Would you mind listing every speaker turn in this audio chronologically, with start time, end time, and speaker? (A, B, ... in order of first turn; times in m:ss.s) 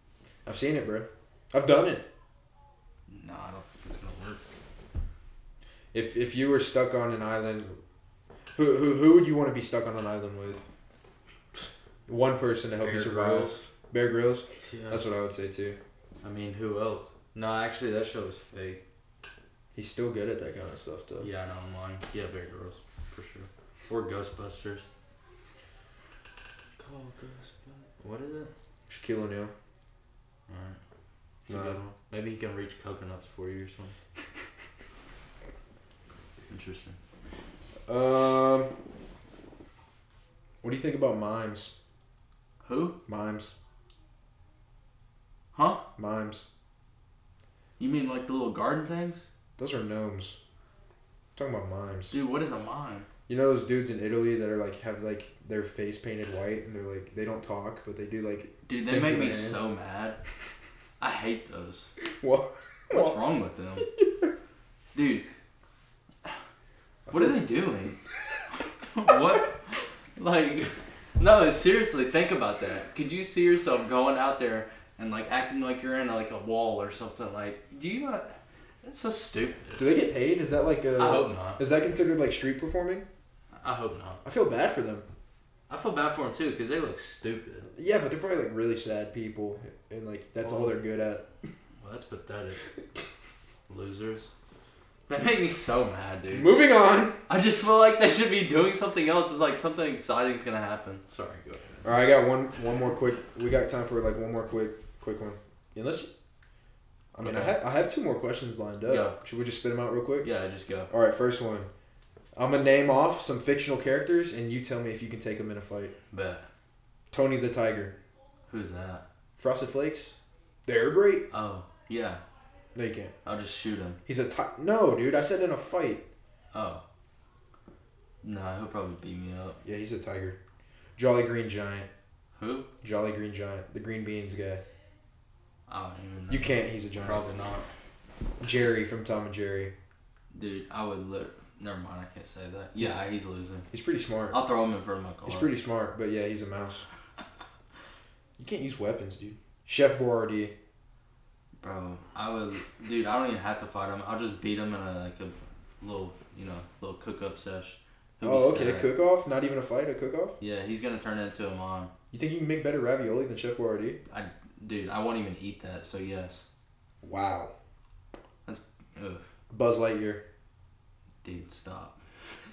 0:00.4-0:02.0 A
0:03.1-0:04.4 B
0:05.9-0:07.8 A
0:08.5-0:10.6 A
0:12.1-0:15.8 A
0:12.8-0:13.7 B
0:14.6-0:15.0 B
0:16.2-0:18.8 B
0:19.7-0:21.3 A
0:21.2-0:24.8 B
0:26.8-0:28.5 B
0:28.9-0:29.5 A
0:30.5-0:30.8 B
0:31.4-0:33.9 B
0:31.5-0:31.8 A
0:36.5-0:37.0 B
0:37.9-0:38.7 A
0:40.6-0:41.7 A
0:42.6-0:43.0 B
0:43.1-0:43.5 A
0:45.5-0:45.8 B
0:46.0-0:46.5 A
0:47.8-0:49.3 B
0:49.6-0:50.4 A
0:51.4-0:52.1 A
0:52.1-0:53.1 B
0:53.3-0:59.6 A
0:58.6-1:00.2 B
1:01.0-1:01.9 B
1:02.1-1:03.2 A
1:02.9-1:03.9 B
1:03.8-1:04.3 A
1:04.9-1:05.2 B
1:07.1-1:07.4 A
1:07.1-1:08.0 B
1:08.5-1:19.8 B
1:19.8-1:23.0 A
1:21.0-1:21.6 B
1:23.6-1:24.2 B
1:24.2-1:25.0 A
1:25.7-1:27.7 B
1:27.7-1:31.2 A
1:30.4-1:30.7 B
1:31.8-1:32.6 B
1:33.7-1:34.3 B
1:35.1-1:36.6 B
1:36.3-1:37.2 A
1:37.3-1:41.7 B
1:41.8-1:46.1 A
1:47.1-1:50.3 A
1:47.2-1:47.6 B
1:48.9-1:49.2 B
1:50.2-1:50.9 B
1:50.9-1:51.7 A
1:52.3-1:55.9 A
1:56.1-1:56.4 B
1:57.1-1:57.9 A
1:58.5-1:59.0 B
1:59.4-2:00.1 A
2:00.7-2:01.2 A
2:01.3-2:02.2 B
2:02.7-2:03.1 A
2:03.2-2:04.0 B
2:04.0-2:06.0 A
2:06.5-2:06.8 B
2:08.2-2:09.6 B
2:09.6-2:10.4 A
2:11.0-2:11.9 A
2:12.4-2:12.7 B
2:12.8-2:14.6 A
2:15.7-2:17.7 B
2:16.3-2:17.2 A
2:18.4-2:19.7 A
2:20.3-2:23.7 B
2:23.7-2:24.4 A
2:24.3-2:25.5 B
2:25.2-2:26.9 A
2:28.4-2:30.5 A
2:31.6-2:38.9 B
2:38.2-2:40.4 A
2:40.4-2:41.9 B
2:42.1-2:44.0 A
2:44.1-2:46.4 B
2:47.0-2:47.5 A
2:48.4-2:49.2 B
2:49.5-2:50.2 A
2:51.2-2:52.0 B